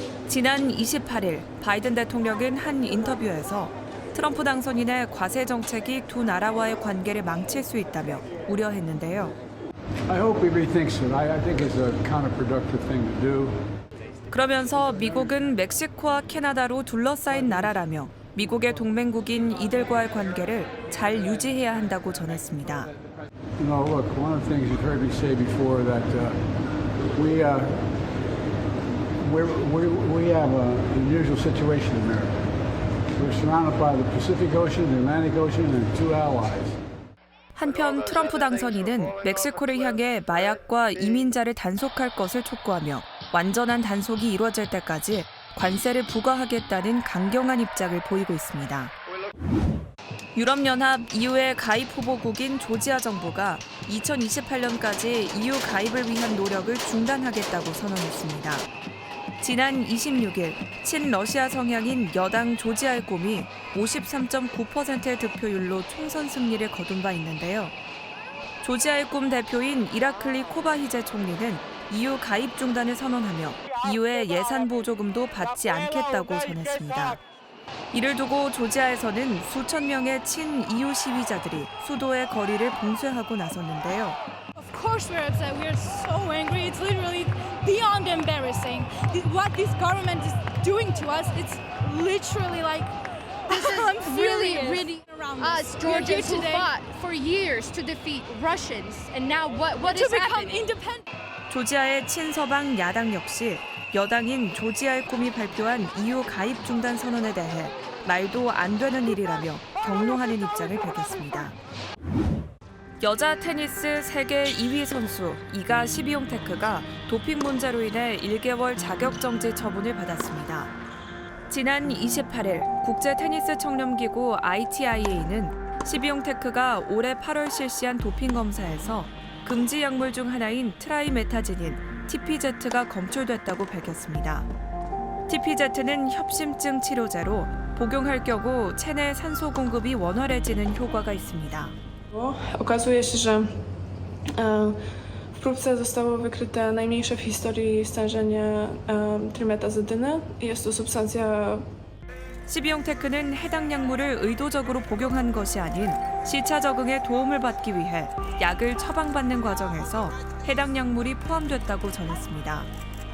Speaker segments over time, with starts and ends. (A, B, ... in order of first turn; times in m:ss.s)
0:00.3-0:09.3 A
0:10.0-0:13.7 B
0:14.3-0:22.9 A
0:23.6-0:28.0 B
0:29.1-0:32.6 B
0:33.1-0:36.8 B
0:37.5-0:48.9 A
0:50.3-0:58.7 A
0:59.4-1:07.7 A
1:08.6-1:17.2 A
1:17.9-1:24.2 A
1:24.6-1:33.0 C
1:33.5-1:36.7 C
1:33.5-1:40.7 D
1:39.8-1:41.0 C
1:41.5-1:51.6 A
1:53.0-2:00.7 A
2:01.5-2:14.5 A
2:15.3-2:21.7 A
2:22.1-2:23.5 E
2:24.4-2:24.8 E
2:25.3-2:31.7 E
2:32.5-2:42.7 A